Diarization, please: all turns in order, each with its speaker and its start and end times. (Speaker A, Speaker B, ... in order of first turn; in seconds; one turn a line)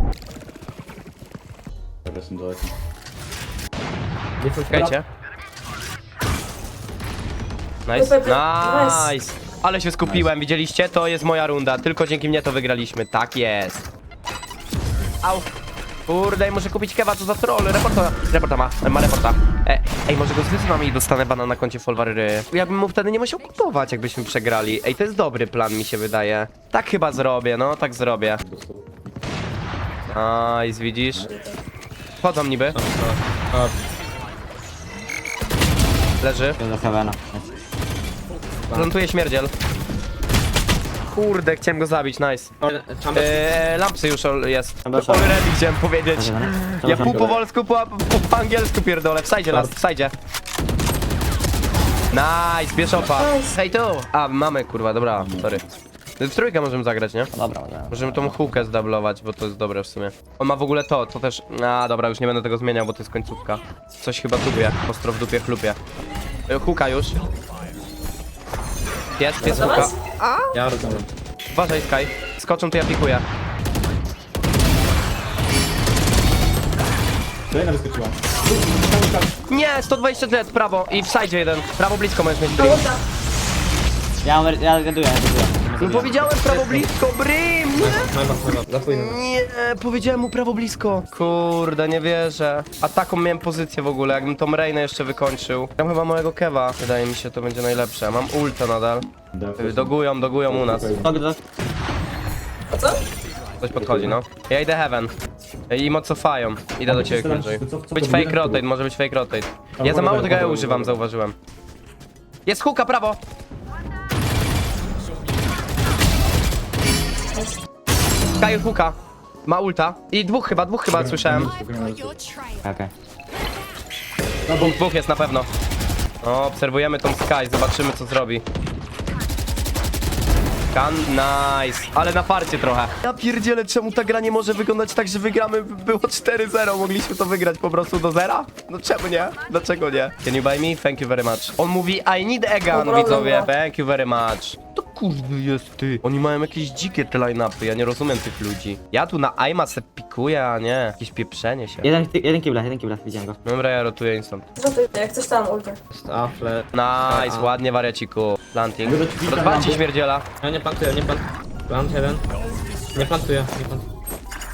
Speaker A: 2.0-2.7
Speaker B: 4.4-4.7
Speaker C: 4.6-5.0
Speaker C: 7.8-13.9
Speaker D: 7.9-9.1
Speaker A: 10.0-10.3
Speaker C: 15.2-15.5
Speaker C: 16.1-28.4
Speaker A: 28.4-29.1
Speaker C: 30.1-31.3
Speaker A: 31.1-31.4
Speaker D: 31.3-31.6
Speaker C: 32.2-32.8
Speaker B: 32.7-33.8
Speaker C: 36.2-36.6
Speaker E: 36.6-37.5
Speaker C: 38.7-39.5
Speaker C: 41.1-42.5
Speaker B: 42.6-43.4
Speaker C: 43.1-50.1
Speaker E: 44.8-45.4
Speaker E: 46.1-47.4
Speaker C: 52.1-55.6
Speaker D: 53.1-53.5
Speaker A: 55.1-55.6
Speaker C: 56.2-57.3
Speaker E: 57.3-58.6
Speaker C: 57.9-65.8
Speaker C: 66.5-67.2
Speaker C: 69.2-70.5
Speaker A: 69.4-69.7
Speaker D: 69.4-69.9
Speaker B: 70.5-71.0
Speaker A: 70.7-71.0
Speaker C: 71.5-73.2
Speaker A: 77.5-79.3
Speaker C: 79.5-82.9
Speaker D: 82.6-83.0
Speaker E: 84.2-86.4
Speaker C: 85.8-88.1
Speaker B: 86.4-86.8
Speaker B: 87.8-89.1
Speaker C: 88.8-99.0
Speaker A: 99.3-101.2
Speaker C: 99.6-101.0
Speaker E: 101.0-101.4
Speaker D: 102.7-103.0
Speaker C: 103.6-105.1
Speaker A: 103.7-104.2
Speaker C: 105.7-111.3
Speaker A: 106.8-108.6
Speaker A: 109.8-111.0
Speaker C: 112.5-113.2
Speaker C: 118.4-121.5
Speaker A: 120.9-122.2
Speaker E: 122.6-122.9
Speaker A: 124.5-124.8
Speaker C: 124.6-125.5
Speaker C: 126.2-128.4
Speaker C: 130.7-151.9
Speaker D: 142.7-143.5
Speaker E: 151.8-153.4
Speaker C: 153.4-154.4
Speaker D: 154.6-155.8
Speaker B: 155.9-157.5
Speaker C: 156.7-160.2
Speaker A: 158.8-159.8
Speaker B: 160.4-162.2
Speaker B: 162.9-163.8